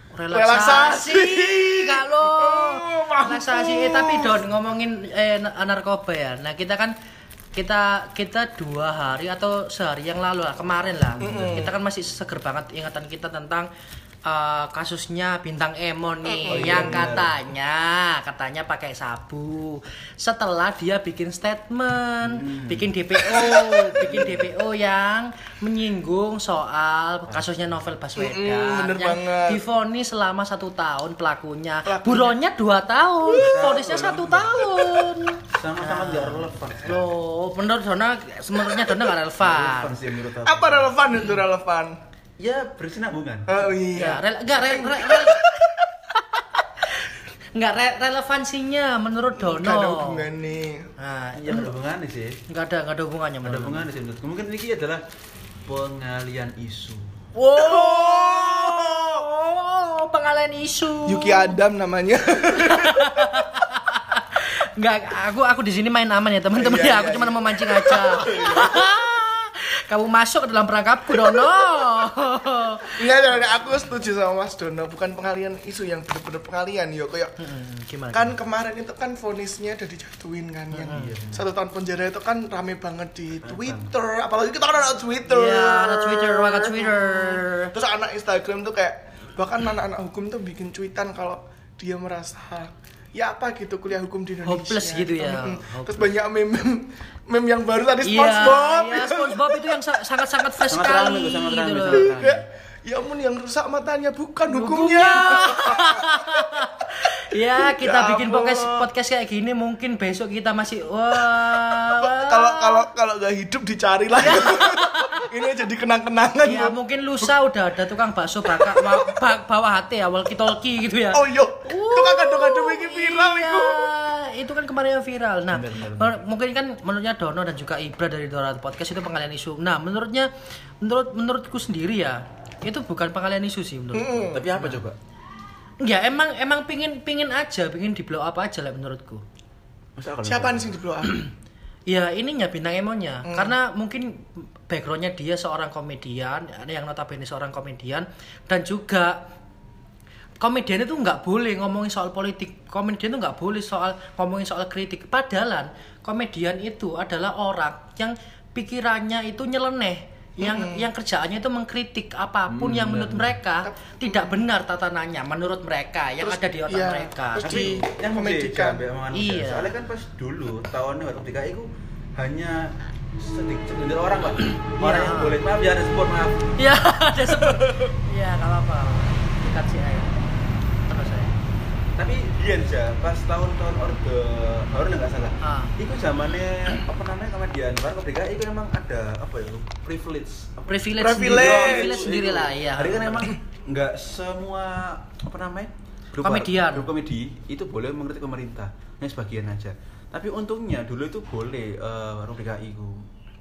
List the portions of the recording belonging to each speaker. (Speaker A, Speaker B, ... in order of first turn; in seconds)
Speaker A: 0.1-6.9, 7.5-13.7, 14.3-39.9, 43.9-45.5, 46.1-50.3, 51.0-51.7, 52.5-53.8, 57.4-61.6, 62.5-73.7, 77.4-78.3, 80.7-81.1, 85.3-87.7, 94.5-96.1, 98.0-102.1, 104.5-112.8, 114.2-115.3, 116.4-130.3, 130.8-134.8, 135.8-139.2, 141.0-141.3, 141.9-149.2, 150.4-167.7, 169.1-169.7, 174.8-175.4, 176.6-180.3, 180.8-181.3, 185.4-185.7, 190.7-193.3, 196.2-196.9
Speaker B: 0.3-4.4, 11.2-11.7, 16.3-17.1, 23.3-23.9, 28.2-29.6, 31.9-32.4, 40.4-42.0, 43.5-45.9, 49.4-50.9, 57.5-59.3, 61.1-63.5, 66.6-68.8, 71.2-71.6, 72.9-77.3, 78.1-99.8, 101.9-106.3, 107.5-108.9, 111.3-116.8, 118.6-119.1, 121.1-123.9, 133.9-134.5, 140.2-141.2, 143.3-143.5, 160.4-160.9, 163.6-164.4, 166.2-168.8, 177.5-177.8, 191.0-192.2
Speaker C: 11.2-11.7, 16.5-17.4, 22.2-22.9, 24.0-24.5, 33.3-34.9, 35.5-37.1, 39.4-41.0, 42.4-43.6, 51.4-52.4, 53.5-55.0, 55.7-57.1, 80.9-81.5, 83.4-83.9, 100.7-102.4, 125.5-126.2, 134.3-135.0, 140.0-140.7, 162.5-163.3, 167.4-176.5, 182.0-203.0